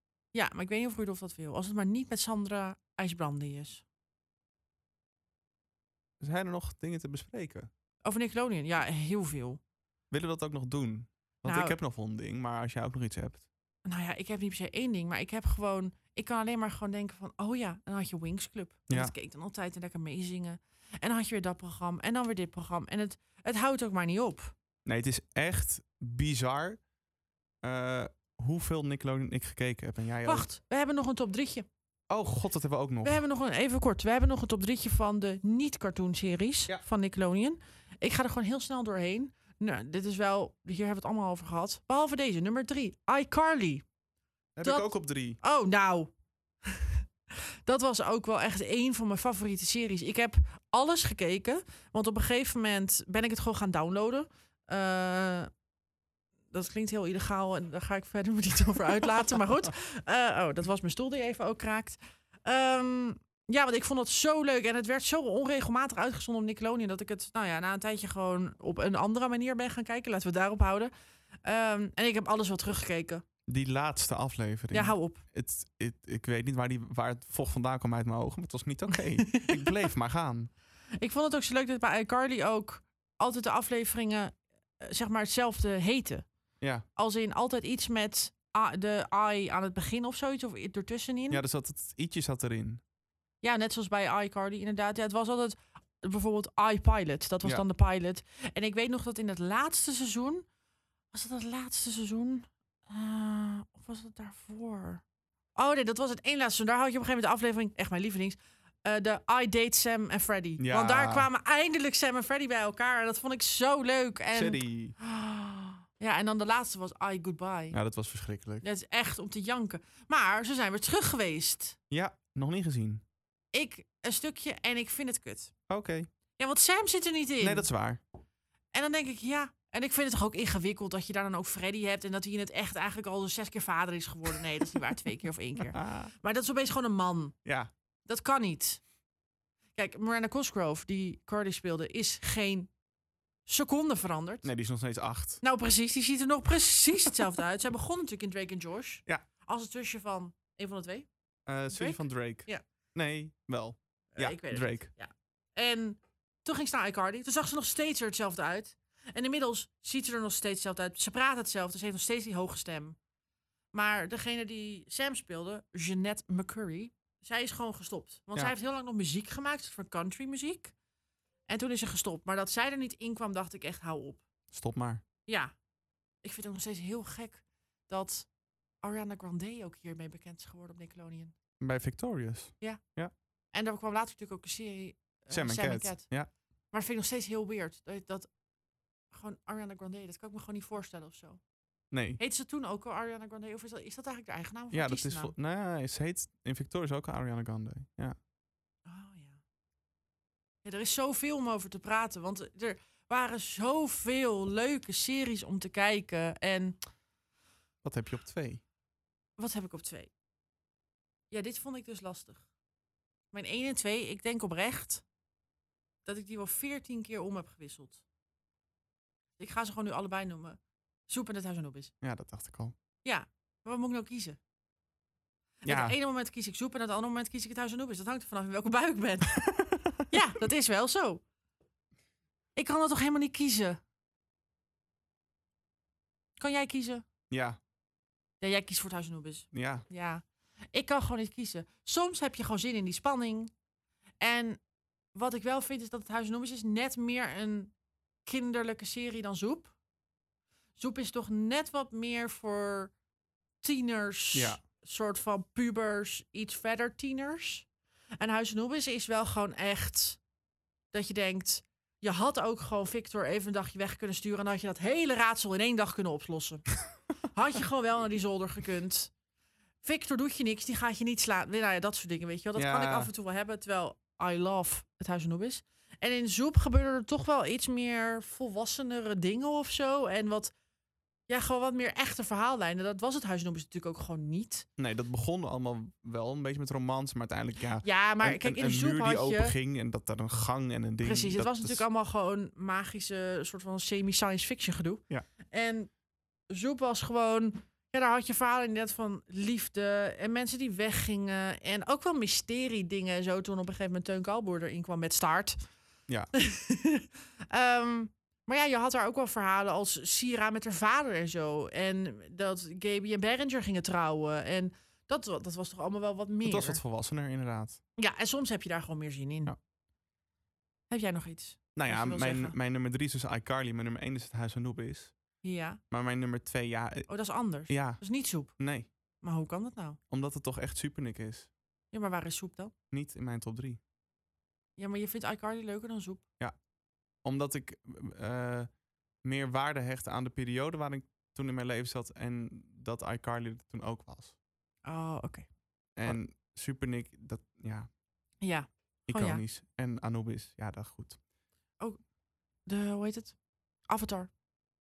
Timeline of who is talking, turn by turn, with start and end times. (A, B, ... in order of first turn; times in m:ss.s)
0:00.3-0:03.8 A
0:06.2-0:07.7 B
0:08.0-0:09.6 A
0:10.1-0:13.4 B
0:11.4-0:11.8 A
0:13.9-0:24.5 A
0:24.9-0:26.8 B
0:27.6-0:30.5 B
0:30.2-0:31.7 A
0:32.1-0:33.2 B
0:33.0-0:43.8 A
0:44.6-0:45.4 B
0:44.6-0:46.1 A
0:46.7-0:47.0 A
0:47.7-0:55.5 A
0:56.5-1:10.9 A
1:11.4-1:13.2 A
1:13.5-1:20.5 B
1:14.7-1:15.2 A
1:18.9-1:19.7 A
1:21.0-1:26.2 A
1:27.0-1:31.4 A
1:31.3-1:32.8 B
1:33.4-1:40.4 A
1:41.1-1:45.0 A
1:45.6-1:57.8 A
1:50.6-1:51.3 B
1:54.3-1:55.0 B
1:57.7-1:58.6 B
1:58.6-2:01.8 A
2:01.9-2:03.0 B
2:03.5-2:05.5 A
2:05.7-2:06.1 B
2:06.4-2:07.7 A
2:07.4-2:08.0 B
2:08.7-2:17.4 A
2:15.6-2:16.1 B
2:17.5-2:17.7 B
2:18.1-2:18.8 A
2:19.8-2:22.7 A
2:23.5-2:24.5 A
2:24.4-2:25.4 B
2:25.4-2:31.1 A
2:31.5-2:34.9 B
2:31.7-2:32.6 A
2:34.2-2:43.0 A
2:43.7-2:50.7 A
2:51.5-2:54.2 A
2:54.5-2:55.0 B
2:55.3-2:55.5 A
2:56.2-2:58.3 A
2:58.8-3:01.3 A
3:01.6-3:03.1 B
3:03.5-3:06.1 A
3:05.3-3:06.3 B
3:06.7-3:08.3 A
3:09.1-3:11.4 A
3:11.9-3:12.2 B
3:12.2-3:15.3 A
3:14.7-3:18.2 B
3:18.9-3:19.4 A
3:20.6-3:26.8 A
3:27.8-3:28.6 B
3:29.4-3:30.1 A
3:31.3-3:32.4 A
3:33.3-3:35.0 A
3:36.1-3:38.0 A
3:39.4-3:41.9 A
3:42.0-3:42.8 B
3:43.0-3:44.4 A
3:45.6-3:49.4 A
3:45.7-3:46.0 B
3:49.4-3:50.1 B
3:50.1-3:51.2 A
3:52.6-3:53.8 A
3:56.4-3:57.0 A
3:57.3-3:57.6 B
3:58.4-4:03.5 A
3:59.5-3:59.8 B
4:04.2-4:04.6 A
4:05.1-4:07.7 A
4:08.3-4:09.7 A
4:10.8-4:12.9 A
4:13.6-4:17.7 A
4:14.3-4:14.6 B
4:18.2-4:20.2 A
4:20.9-4:26.7 A
4:27.4-4:29.1 A
4:29.8-4:40.5 A
4:32.6-4:33.1 B
4:41.3-4:44.7 A
4:44.8-4:51.8 B
4:47.8-4:49.6 A
4:51.0-4:55.9 A
4:56.5-5:05.6 A
5:06.4-5:16.8 A
5:16.4-5:17.8 B
5:18.0-5:19.5 A
5:20.9-5:22.6 A
5:21.8-5:25.1 B
5:25.4-5:25.8 A
5:25.9-5:27.1 B
5:27.1-5:28.6 A
5:27.7-5:28.0 B
5:28.6-5:28.9 B
5:29.2-5:30.0 A
5:30.1-5:31.5 B
5:31.9-5:32.7 A
5:32.9-5:33.8 B
5:34.8-5:36.2 A
5:37.2-5:38.7 B
5:39.2-5:44.3 B
5:44.8-5:45.5 A
5:46.0-5:47.9 B
5:48.4-5:49.4 A
5:49.1-5:51.2 B
5:52.7-5:53.4 A
5:53.9-5:54.3 A